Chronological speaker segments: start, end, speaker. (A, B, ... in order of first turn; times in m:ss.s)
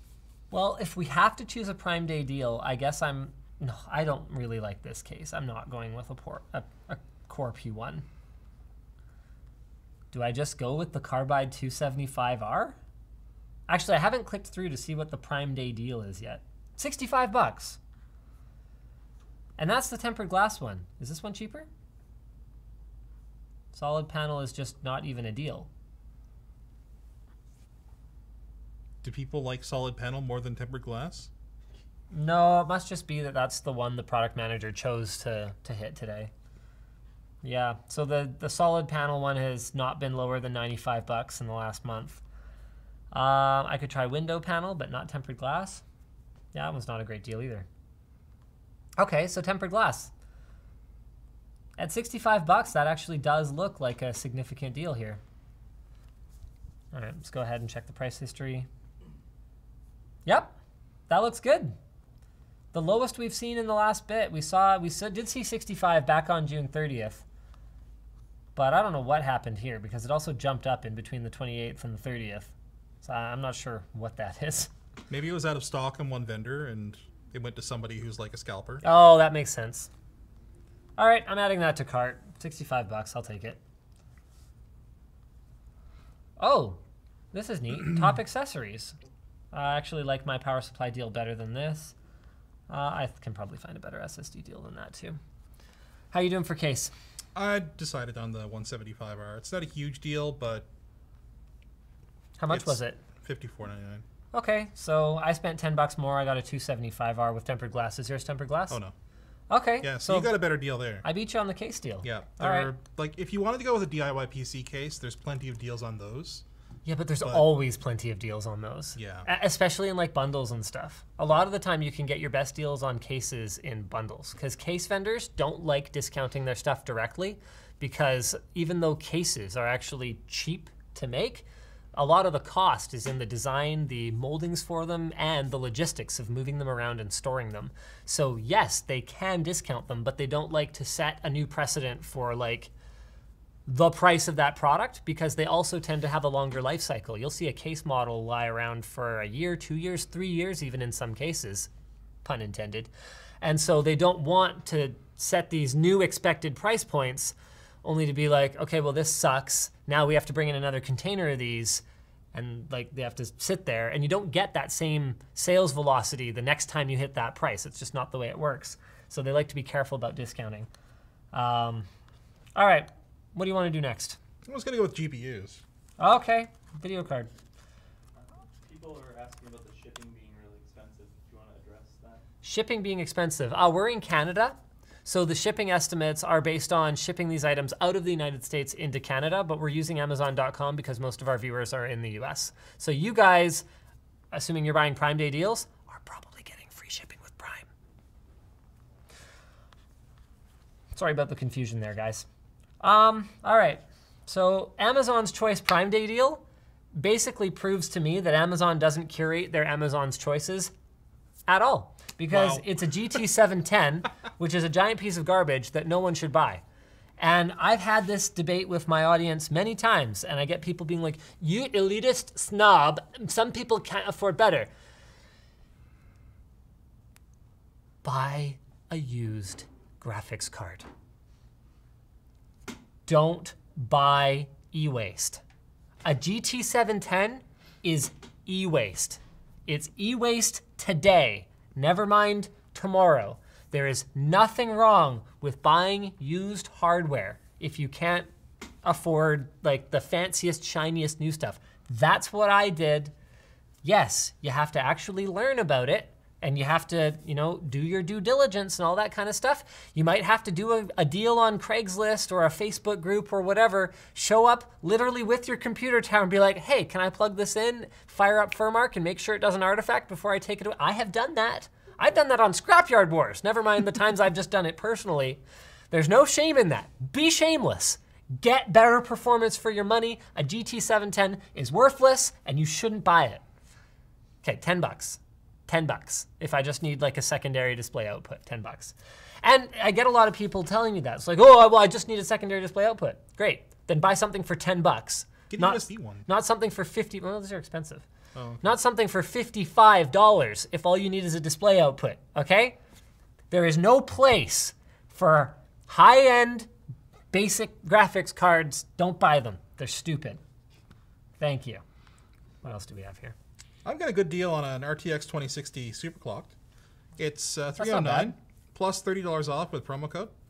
0:00.5-0:08.0 A
0:10.1-0:12.8 A
0:13.7-0:17.8 A
0:19.6-0:21.7 A
0:23.7-0:25.7 A
0:29.0-0:31.3 B
0:32.1-0:36.3 A
0:37.4-0:42.2 A
0:43.1-0:45.8 A
0:46.5-0:47.7 A
0:49.0-0:50.1 A
0:51.8-0:55.2 A
0:56.9-0:58.7 A
1:00.2-1:00.5 A
1:01.1-1:01.8 A
1:02.7-1:07.2 A
1:08.5-1:14.7 A
1:15.1-1:18.8 B
1:18.8-1:19.9 A
1:21.0-1:23.6 A
1:26.4-1:26.8 A
1:27.3-1:29.0 A
1:29.5-1:31.9 A
1:32.7-1:35.2 A
1:36.1-1:36.9 A
1:37.3-1:40.7 B
1:42.4-1:43.0 A
1:42.5-1:44.0 B
1:44.3-1:48.8 A
1:48.7-1:48.9 B
1:49.5-1:50.3 A
1:49.8-1:51.0 B
1:51.0-1:52.7 A
1:52.0-1:56.4 B
1:56.8-2:22.7 A
1:57.2-1:57.4 B
1:59.0-1:59.3 B
2:23.6-2:31.7 A
2:32.2-2:32.9 A
2:33.4-2:50.7 A
2:51.3-2:51.9 A
2:52.5-2:54.2 A
2:54.4-2:55.6 B
2:56.0-2:57.3 A
2:58.2-3:02.2 C
3:02.4-3:13.6 A
3:14.3-3:17.7 A
3:20.9-3:22.3 A
3:22.8-3:26.4 A
3:26.9-3:30.7 A
3:31.5-3:36.6 A
3:32.3-3:32.6 B
3:37.2-3:44.7 A
3:48.0-3:50.9 A
3:53.0-3:55.4 A
3:56.0-4:08.3 A
4:08.8-4:13.1 A
4:13.8-4:43.4 A
4:44.4-4:58.0 A
4:55.5-4:56.2 B
4:58.3-4:58.6 B
4:58.6-5:02.8 A
5:03.5-5:06.7 A
5:07.3-5:10.4 A
5:11.4-5:11.8 A
5:12.6-5:13.4 A
5:13.8-5:16.6 B
5:17.2-5:20.3 B
5:17.8-5:18.3 A